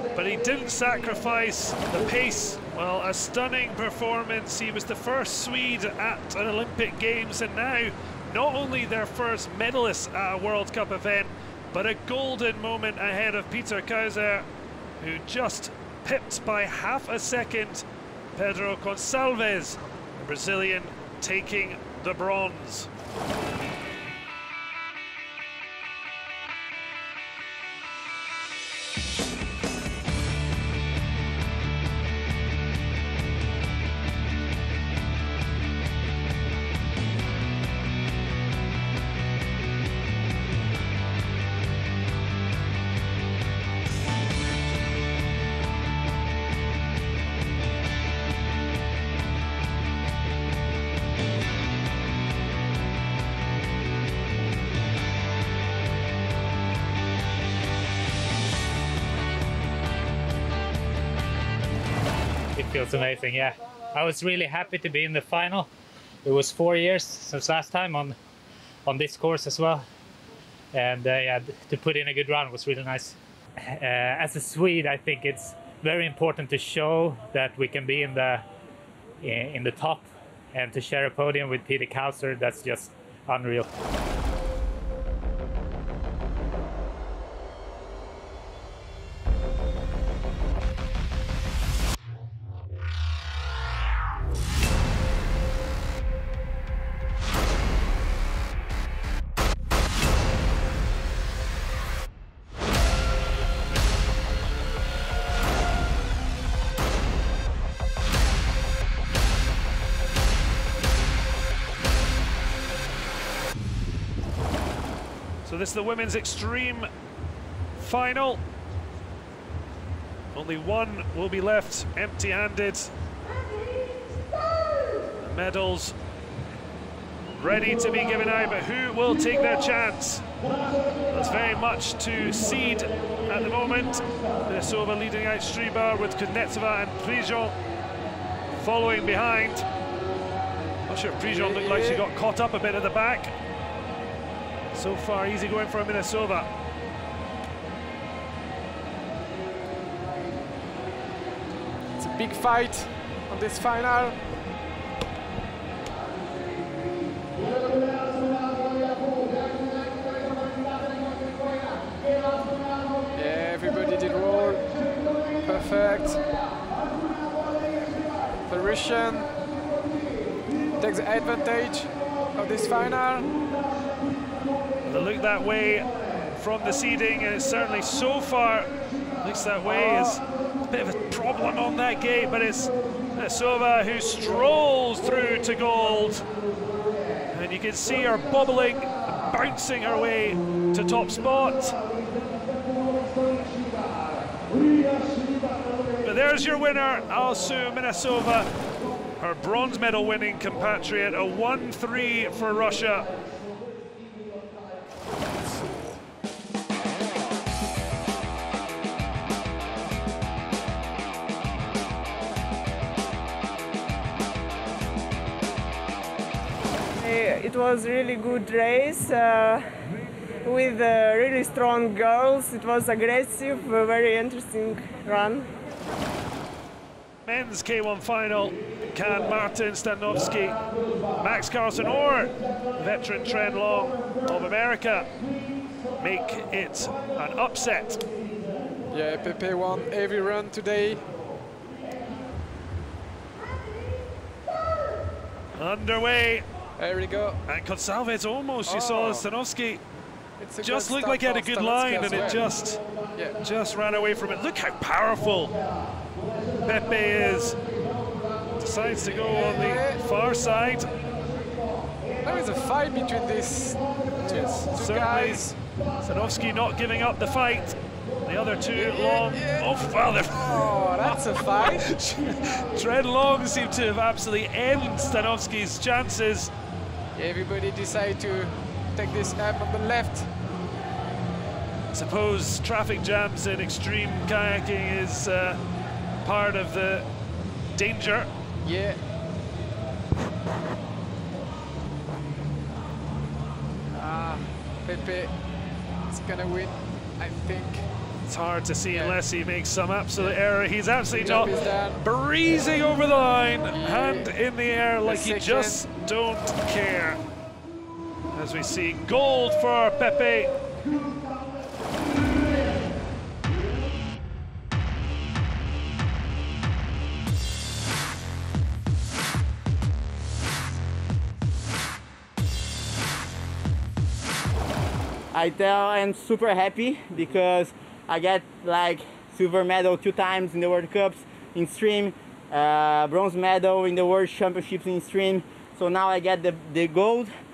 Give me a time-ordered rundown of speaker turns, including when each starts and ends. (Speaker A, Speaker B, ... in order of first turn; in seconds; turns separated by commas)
Speaker A: 0.1-14.5, Speaker A: 15.0-17.8, Speaker A: 18.4-22.9, Speaker B: 62.5-65.7, Speaker B: 66.2-68.2, Speaker B: 68.8-69.8, Speaker B: 70.7-78.4, Speaker B: 79.2-83.7, Speaker A: 115.4-116.9, Speaker A: 117.8-118.4, Speaker A: 120.3-122.9, Speaker A: 125.2-125.9, Speaker A: 127.4-130.2, Speaker A: 131.1-137.5, Speaker A: 138.5-139.6, Speaker A: 140.9-143.3, Speaker C: 141.2-142.0, Speaker A: 144.7-146.5, Speaker C: 152.0-154.2, Speaker C: 163.1-164.7, Speaker C: 165.4-166.2, Speaker C: 168.5-169.3, Speaker C: 170.8-173.3, Speaker A: 174.8-186.2, Speaker C: 179.7-180.2, Speaker A: 187.3-191.8, Speaker A: 196.0-198.5, Speaker A: 199.2-203.1, Speaker D: 216.9-219.7, Speaker D: 220.4-225.6, Speaker A: 227.2-230.6, Speaker A: 231.2-235.1, Speaker A: 236.0-238.1, Speaker C: 238.9-241.0, Speaker A: 245.6-246.4, Speaker C: 246.8-247.4, Speaker A: 247.5-249.8, Speaker C: 248.7-249.2, Speaker C: 250.4-252.4, Speaker A: 250.6-252.8, Speaker A: 253.4-255.5, Speaker A: 256.6-257.6, Speaker A: 258.6-260.9, Speaker C: 259.3-260.0, Speaker C: 262.2-265.5, Speaker A: 264.7-276.5, Speaker C: 268.7-269.7, Speaker C: 270.3-271.9, Speaker C: 277.1-280.3, Speaker A: 281.9-285.6, Speaker A: 286.2-287.1, Speaker A: 287.7-288.3, Speaker C: 288.6-289.0, Speaker C: 293.9-295.3, Speaker C: 296.1-297.9, Speaker A: 298.3-307.2, Speaker C: 298.9-299.2, Speaker C: 301.2-302.0, Speaker C: 303.7-304.3, Speaker C: 305.0-305.8, Speaker A: 308.3-310.5, Speaker E: 325.3-337.3